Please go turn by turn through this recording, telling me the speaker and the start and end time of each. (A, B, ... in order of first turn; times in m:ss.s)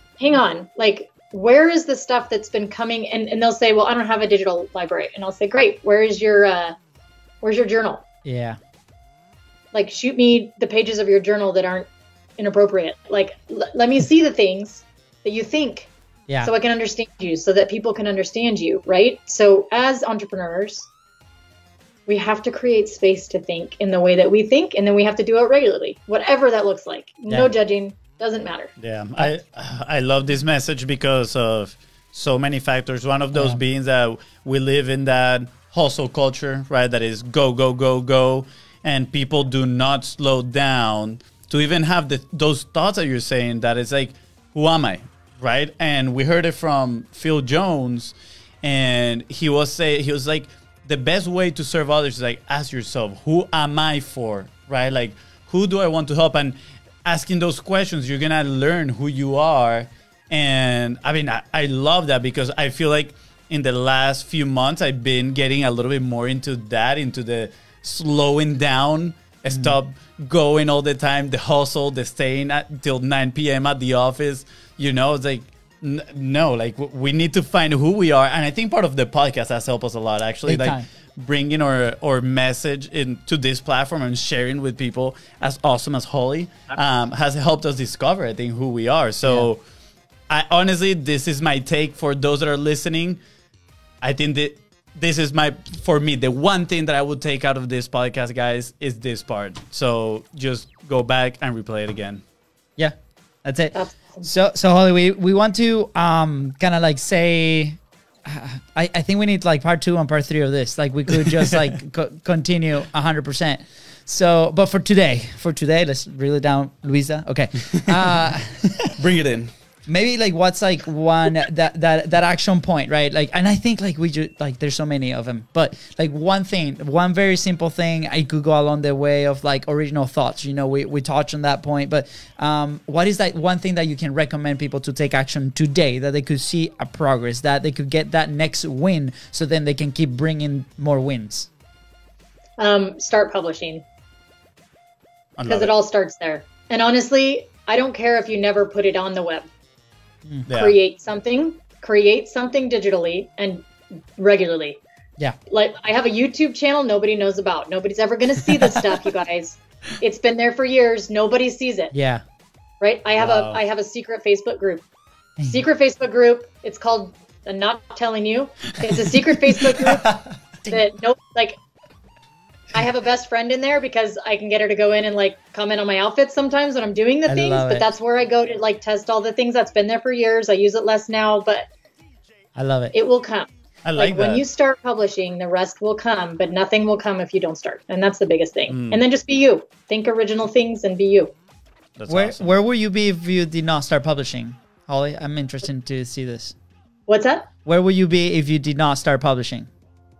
0:00.2-0:06.8 A
0:07.4-0:08.0 A
0:08.2-0:08.6 B
0:09.7-0:15.9 A
0:16.4-0:20.9 A
0:22.1-0:28.7 A
0:28.8-1:29.6 C
0:33.3-0:33.6 B
1:09.5-1:09.8 B
1:20.4-1:20.8 B
1:30.3-1:33.2 C
1:34.0-1:42.2 C
1:42.8-1:59.0 B
1:43.7-1:44.3 A
1:51.2-1:51.6 C
1:57.6-1:58.0 C
1:59.0-1:59.5 C
1:59.8-2:21.5 B
2:22.6-2:23.8 A
2:25.4-2:25.7 C
2:25.4-2:29.5 A
2:30.5-2:30.7 C
2:30.5-2:33.6 A
2:34.2-2:34.8 A
2:35.5-2:41.9 A
2:41.9-2:42.2 B
2:42.8-2:44.8 A
2:43.2-2:43.6 C
2:45.4-2:51.6 A
2:49.8-2:50.2 C
2:52.7-3:01.6 A
2:57.2-2:57.9 B
3:02.6-3:02.9 B
3:02.9-3:11.3 A
3:03.8-3:04.4 C
3:08.7-3:09.0 C
3:12.0-3:12.5 C
3:12.1-3:16.5 B
3:17.1-3:17.5 A
3:17.6-3:19.7 B